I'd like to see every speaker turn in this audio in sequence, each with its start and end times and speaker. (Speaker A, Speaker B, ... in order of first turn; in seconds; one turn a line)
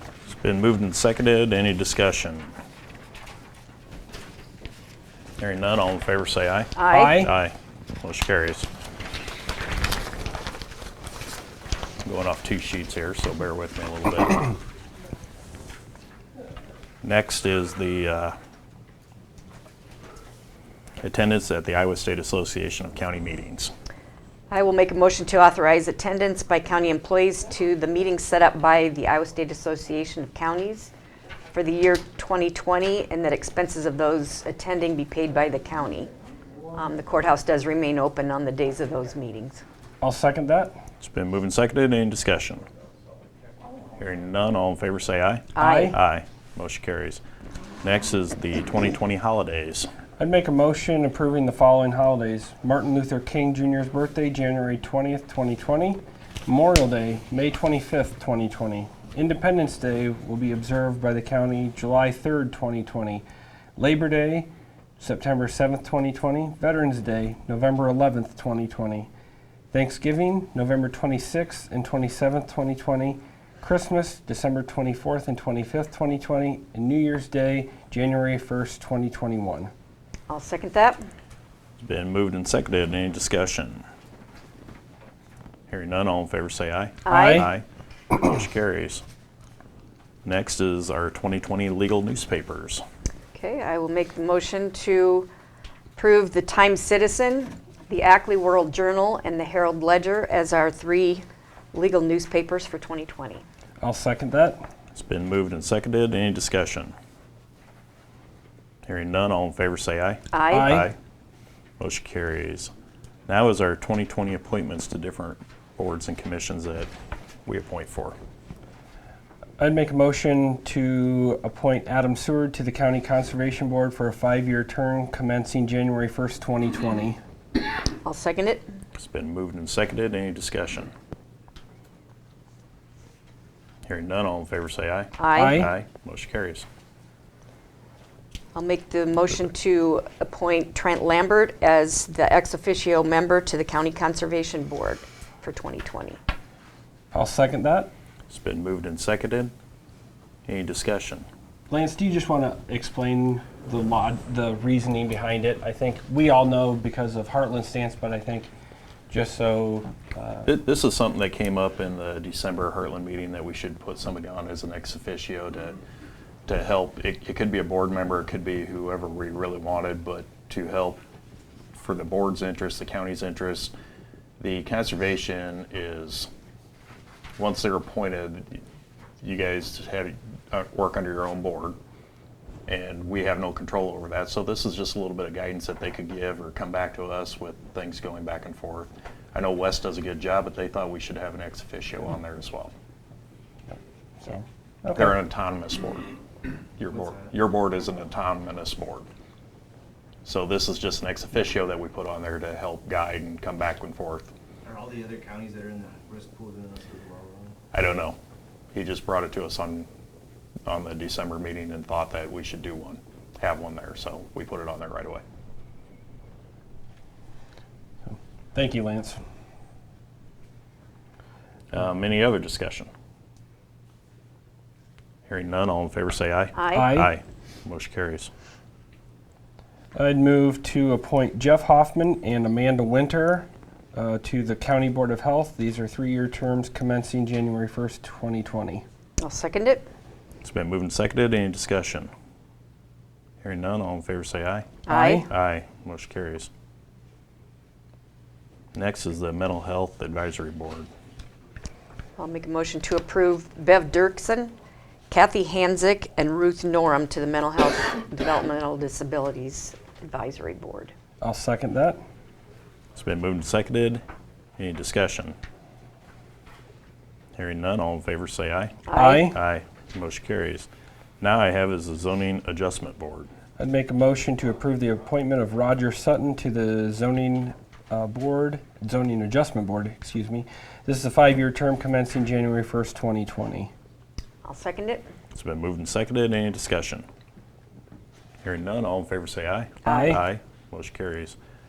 Speaker A: 0.3-2.5
Speaker A: 5.4-8.7
Speaker B: 6.8-7.2
Speaker C: 6.9-7.3
Speaker A: 12.0-14.6
Speaker A: 17.0-18.4
Speaker A: 21.0-23.7
Speaker B: 24.5-30.9
Speaker B: 31.5-36.1
Speaker B: 36.7-39.6
Speaker C: 40.0-40.7
Speaker A: 41.0-42.6
Speaker A: 44.0-47.2
Speaker B: 45.5-45.9
Speaker C: 45.6-46.0
Speaker A: 47.8-49.9
Speaker C: 50.2-63.2
Speaker C: 63.8-69.1
Speaker C: 69.7-79.7
Speaker B: 80.3-81.0
Speaker A: 81.8-83.8
Speaker A: 85.7-89.0
Speaker B: 87.0-87.5
Speaker C: 87.1-87.5
Speaker A: 90.2-92.8
Speaker B: 93.3-95.3
Speaker B: 96.0-103.4
Speaker C: 103.8-104.6
Speaker A: 104.9-106.9
Speaker A: 108.8-111.0
Speaker B: 110.3-110.8
Speaker C: 110.5-110.9
Speaker A: 111.8-112.7
Speaker A: 113.3-116.9
Speaker A: 117.5-118.2
Speaker C: 119.6-127.2
Speaker B: 128.0-128.7
Speaker A: 128.9-130.9
Speaker A: 133.8-136.7
Speaker B: 135.2-135.7
Speaker C: 135.3-135.7
Speaker B: 138.5-146.2
Speaker C: 147.1-147.9
Speaker A: 148.3-149.5
Speaker A: 150.5-151.3
Speaker C: 151.7-158.5
Speaker C: 159.1-160.5
Speaker A: 160.4-165.8
Speaker A: 166.5-171.0
Speaker A: 171.7-173.7
Speaker A: 174.4-176.3
Speaker A: 177.4-178.6
Speaker A: 179.2-181.8
Speaker A: 182.7-192.7
Speaker C: 194.2-195.2
Speaker A: 194.9-196.2
Speaker A: 196.8-199.1
Speaker D: 196.9-197.3
Speaker A: 200.2-204.3
Speaker D: 204.6-207.6
Speaker A: 207.7-208.2
Speaker A: 208.7-209.9
Speaker A: 210.7-215.2
Speaker C: 218.1-219.2
Speaker A: 221.7-222.9
Speaker A: 225.3-228.3
Speaker B: 226.5-226.9
Speaker C: 226.7-227.1
Speaker C: 229.9-238.8
Speaker B: 239.2-239.9
Speaker A: 240.4-242.1
Speaker A: 243.4-246.5
Speaker B: 244.8-245.2
Speaker C: 244.9-245.2
Speaker A: 248.7-250.9
Speaker B: 252.2-254.5
Speaker B: 255.1-260.9
Speaker C: 261.2-262.0
Speaker A: 262.9-264.0
Speaker A: 264.6-265.4
Speaker A: 267.4-270.7
Speaker B: 268.9-269.3
Speaker C: 268.9-269.4
Speaker A: 271.2-273.3
Speaker C: 273.6-283.7
Speaker B: 284.4-285.1
Speaker A: 285.3-287.1
Speaker A: 288.4-291.4
Speaker B: 289.8-290.2
Speaker C: 289.9-290.2